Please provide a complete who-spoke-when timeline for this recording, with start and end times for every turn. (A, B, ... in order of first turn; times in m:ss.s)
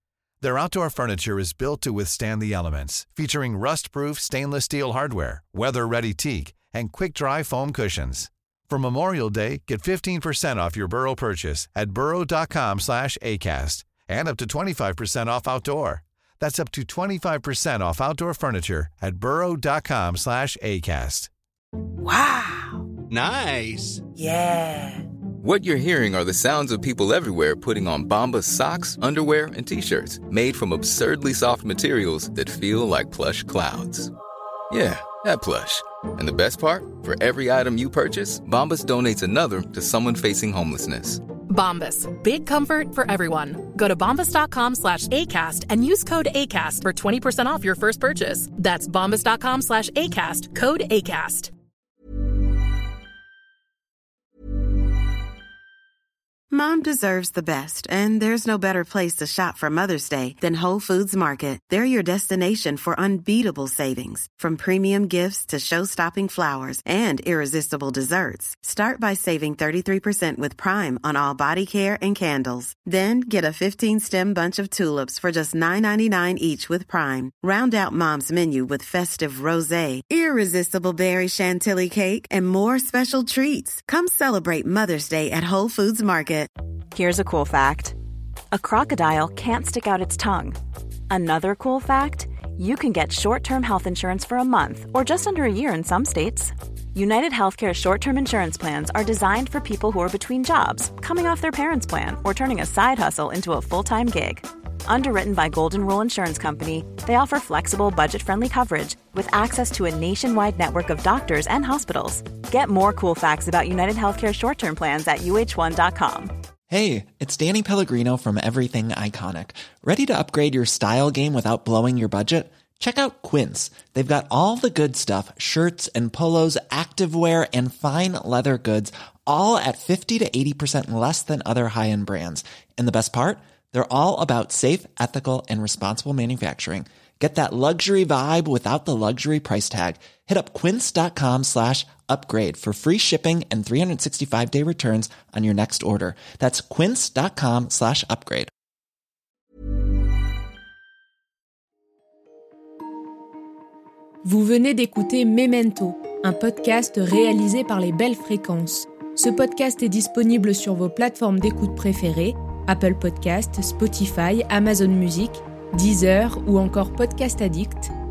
0:00.4-0:21.3 A
0:23.1-0:24.0 B
0:25.4-0:34.1 B
0:34.7-0:41.2 B
0:41.5-0:51.5 C
0:56.5-1:26.5 D
1:26.9-1:28.0 E
1:28.5-1:30.6 E
1:31.1-1:56.3 E
1:56.7-2:28.5 F
2:34.2-2:47.9 G